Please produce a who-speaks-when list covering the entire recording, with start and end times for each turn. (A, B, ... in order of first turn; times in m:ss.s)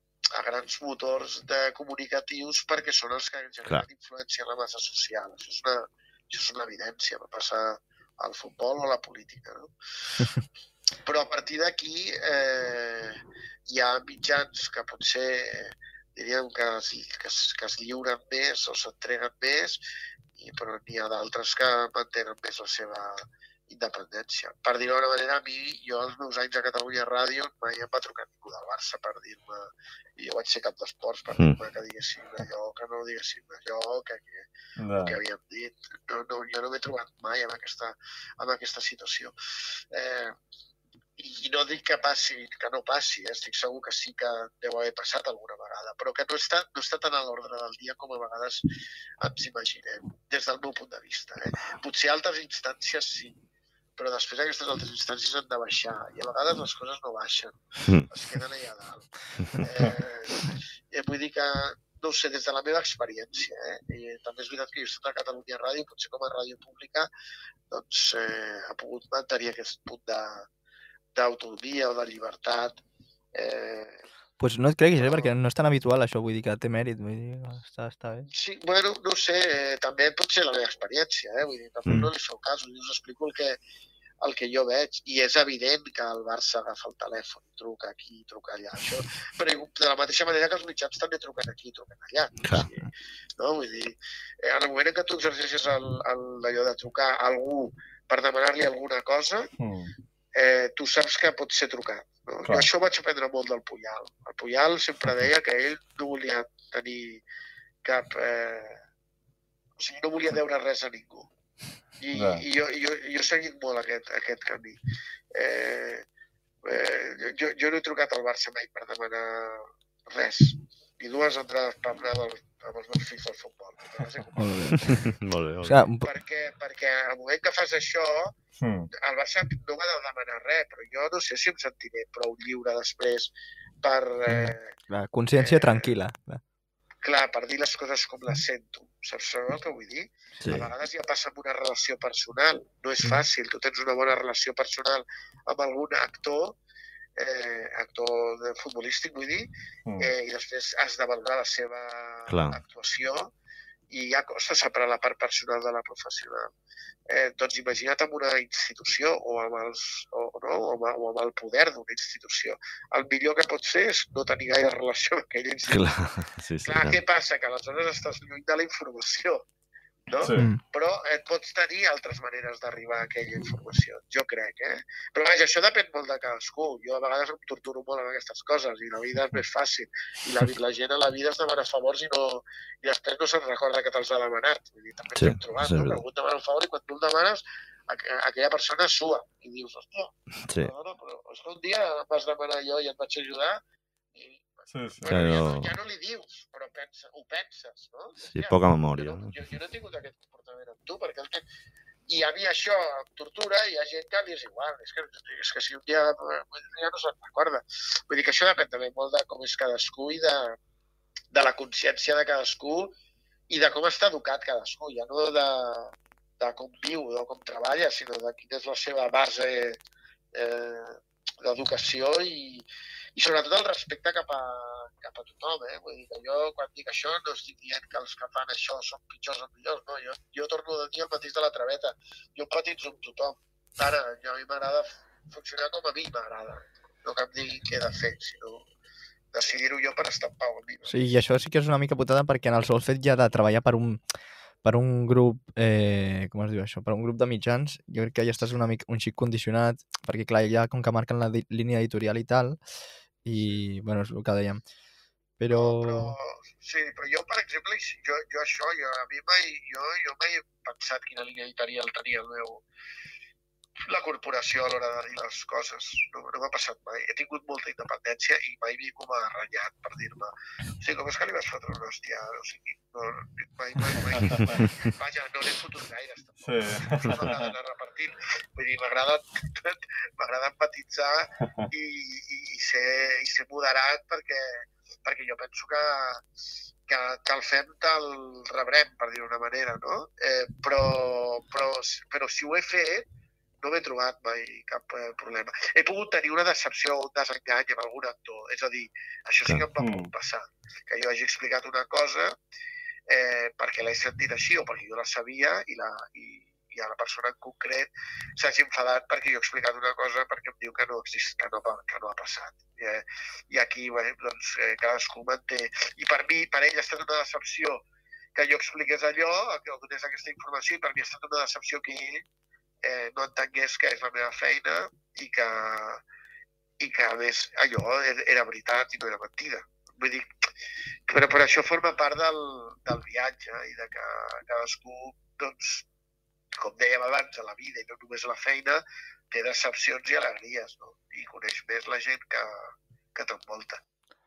0:00.4-0:09.7 A
0:11.1-0:19.8 A
0:20.4-0:34.5 A
0:34.8-0:35.2 B
0:35.0-0:39.4 A
0:39.9-0:40.4 A
0:41.2-0:48.6 A
0:49.2-0:53.4 A
0:54.0-1:07.1 A
1:07.7-1:10.4 A
1:11.2-1:12.8 A
1:13.4-1:14.0 A
1:14.4-1:18.3 C
1:15.0-1:15.3 A
1:18.3-1:23.6 A
1:24.2-1:39.5 A
1:39.6-1:39.9 B
1:40.4-1:47.2 A
1:47.8-1:48.8 A
1:49.8-1:51.3 A
1:52.0-1:54.8 A
1:52.1-1:52.4 B
1:55.3-1:56.1 A
1:56.6-2:04.5 A
2:04.4-2:05.1 C
2:04.8-2:05.8 D
2:05.6-2:06.1 C
2:06.0-2:08.4 A
2:08.6-2:08.9 B
2:08.9-2:13.3 A
2:13.8-2:14.8 A
2:14.3-2:16.4 C
2:15.4-2:16.0 A
2:17.0-2:26.6 A
2:20.5-2:20.7 D
2:27.2-2:33.3 A
2:29.9-2:30.1 B
2:32.3-2:32.6 D
2:33.9-2:36.5 A
2:37.1-2:46.0 A
2:45.7-2:47.0 D
2:46.6-2:49.4 A
2:50.1-3:13.6 A
2:50.2-2:50.5 B
3:05.2-3:06.0 D
3:10.5-3:10.7 D
3:14.2-3:21.4 A
3:14.7-3:15.1 B
3:15.1-3:15.7 D
3:18.3-3:19.3 D
3:22.1-3:30.6 A
3:31.3-3:32.9 A
3:33.5-3:39.8 A
3:40.3-3:58.7 A
3:59.3-4:01.1 A
4:00.9-4:04.0 C
4:04.6-4:12.6 C
4:13.2-4:14.6 C
4:15.4-4:16.2 C
4:15.5-4:22.6 A
4:23.8-4:46.2 A
4:33.8-4:34.7 B
4:36.4-4:37.5 B
4:46.9-4:53.1 A
4:53.6-5:02.4 A
4:59.8-5:00.1 B
5:03.1-5:22.2 A
5:22.8-5:26.0 A
5:26.8-5:30.3 A
5:31.1-5:35.9 A
5:36.6-5:42.6 A
5:43.2-5:43.8 A